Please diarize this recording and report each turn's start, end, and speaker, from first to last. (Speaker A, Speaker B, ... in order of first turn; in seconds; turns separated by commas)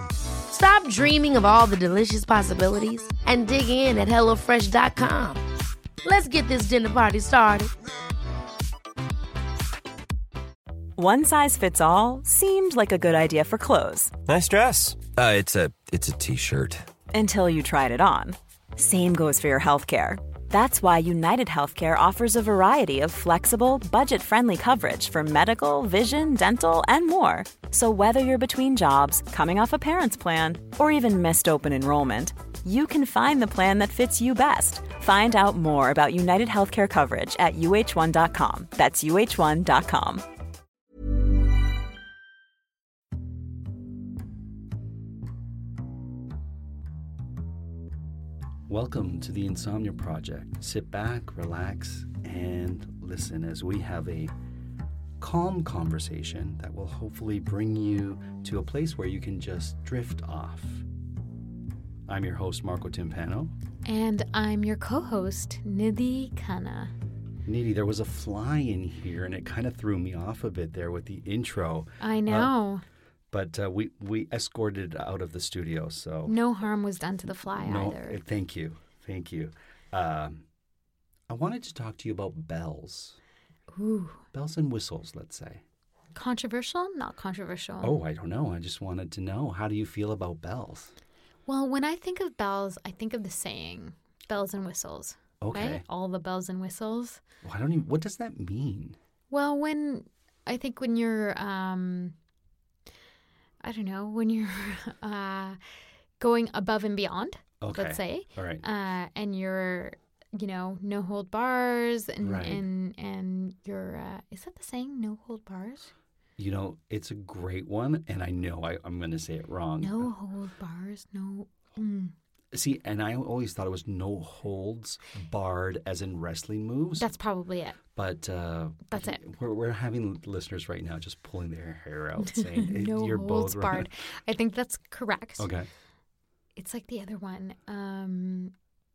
Speaker A: 0.5-5.4, Speaker A: 6.0-7.7, Speaker B: 11.0-14.2, Speaker C: 14.2-16.9, Speaker B: 17.1-40.2, Speaker D: 48.7-54.3, Speaker D: 55.2-60.9, Speaker D: 62.1-63.5, Speaker E: 63.9-66.9, Speaker D: 67.5-72.5, Speaker E: 72.0-72.8, Speaker D: 73.3-76.3, Speaker E: 76.3-78.2, Speaker D: 77.5-80.5, Speaker D: 81.3-83.2, Speaker E: 83.7-84.2, Speaker D: 84.3-85.6, Speaker E: 86.2-88.0, Speaker D: 87.8-90.9, Speaker E: 91.5-97.2, Speaker D: 95.4-95.8, Speaker D: 97.4-99.0, Speaker E: 99.3-102.2, Speaker E: 103.6-105.6, Speaker E: 106.2-115.9, Speaker D: 107.6-108.6, Speaker D: 112.2-112.6, Speaker D: 116.4-120.1, Speaker E: 119.8-122.1, Speaker D: 122.5-127.1, Speaker E: 127.0-127.8, Speaker D: 127.9-133.9, Speaker E: 128.9-129.2, Speaker E: 132.2-135.5, Speaker D: 135.4-135.7, Speaker E: 136.6-138.5